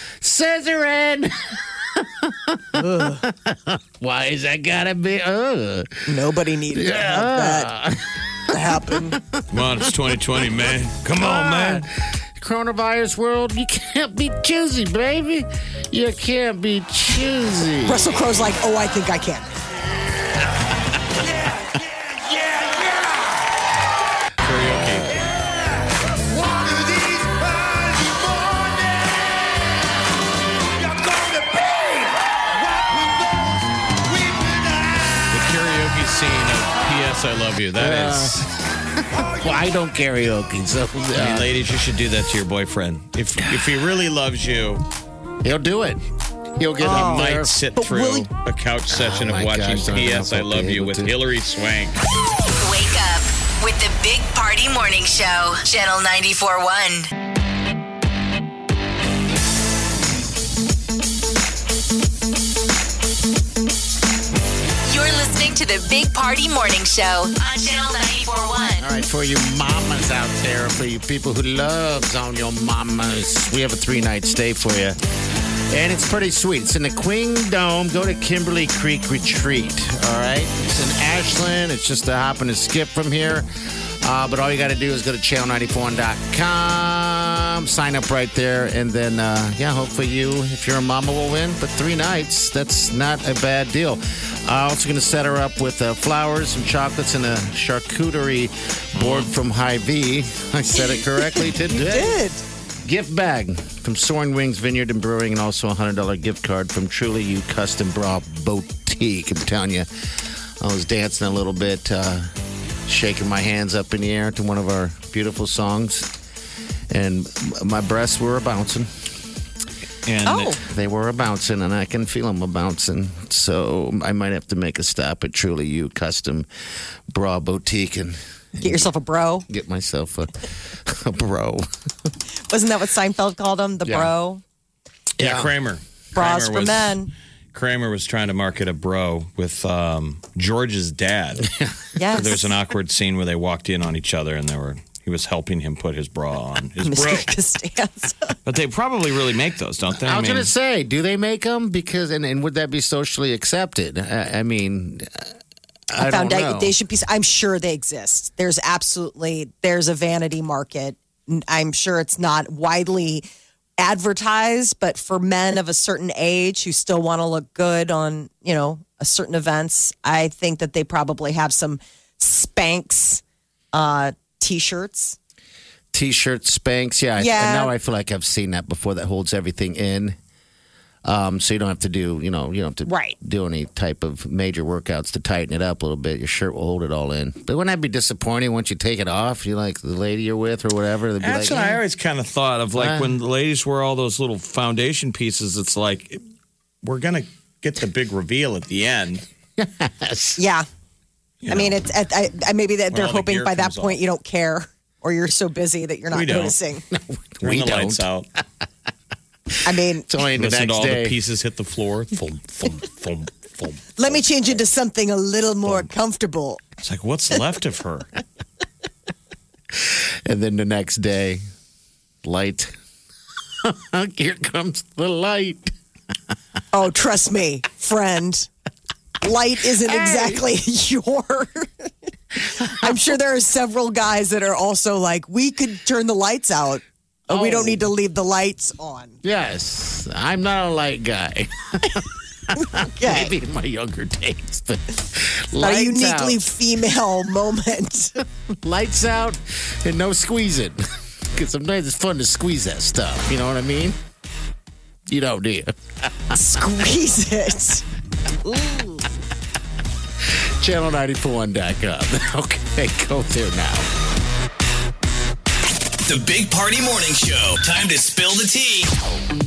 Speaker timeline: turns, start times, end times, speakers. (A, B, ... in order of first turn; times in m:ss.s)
0:00.2-0:06.1 A
0:02.7-0:03.2 B
0:06.1-0:07.7 B
0:06.7-0:09.4 A
0:08.5-0:09.2 B
0:09.5-0:11.9 C
0:10.5-0:18.2 A
0:17.8-0:19.5 B
0:24.4-0:25.2 C
0:35.3-0:38.4 C
0:37.8-0:38.5 A
0:39.0-0:41.5 A
0:41.2-0:44.8 C
0:43.4-0:43.7 A
0:45.4-0:46.0 A
0:46.6-0:47.5 A
0:46.8-0:48.3 B
0:46.8-0:52.0 C
0:48.9-0:51.1 A
0:52.6-0:57.1 D
1:04.9-1:08.9 D
1:08.8-1:15.0 A
1:15.7-1:42.2 A
1:39.0-1:39.3 C
1:40.9-1:42.4 B
1:42.8-1:49.9 A
1:50.6-1:52.3 A
1:52.9-1:56.1 A
1:56.9-1:59.1 A
2:00.0-2:00.6 C
2:00.3-2:00.6 B
2:00.6-2:06.5 A
2:07.1-2:08.9 A
2:08.6-2:09.4 B
2:09.5-2:11.7 A
2:12.5-2:14.4 B
2:13.8-2:14.1 A
2:15.2-2:17.0 C
2:15.2-2:15.5 A
2:16.1-2:17.1 B
2:17.5-2:21.5 C
2:21.5-2:21.7 A
2:22.0-2:22.5 B
2:22.1-2:27.3 C
2:26.8-2:28.3 B
2:28.4-2:30.5 C
2:29.9-2:35.3 A
2:35.9-2:36.7 A
2:36.0-2:43.3 B
2:43.8-2:53.2 B
2:53.7-2:55.2 B
2:55.9-3:00.2 A
2:57.2-2:57.7 B
3:01.0-3:11.8 A
3:02.9-3:03.2 B
3:11.2-3:16.2 C
3:12.7-3:13.1 A
3:16.8-3:19.2 C
3:19.6-3:20.4 A
3:20.4-3:20.7 B
3:21.4-3:21.8 C
3:21.5-3:26.8 B
3:22.9-3:24.0 C
3:26.1-3:26.6 C
3:26.9-3:28.0 A
3:27.4-3:28.3 C
3:29.6-3:30.0 B
3:30.0-3:31.2 A
3:30.4-3:33.9 C
3:34.0-3:36.6 B
3:36.8-3:38.1 C
3:39.7-3:41.4 A
3:42.2-3:42.7 A
3:43.6-3:45.7 A
3:46.7-3:48.5 B
3:49.2-3:51.9 B
3:49.8-3:50.4 A
3:52.6-3:59.2 B
3:52.6-3:53.0 A
3:57.3-3:57.8 A
3:59.2-4:06.4 A
4:02.6-4:03.3 B
4:05.6-4:08.2 B
4:08.6-4:14.0 A
4:15.1-4:16.4 A
4:16.3-4:17.8 B
4:18.4-4:19.0 B
4:20.6-4:23.9 A
4:26.0-4:28.9 E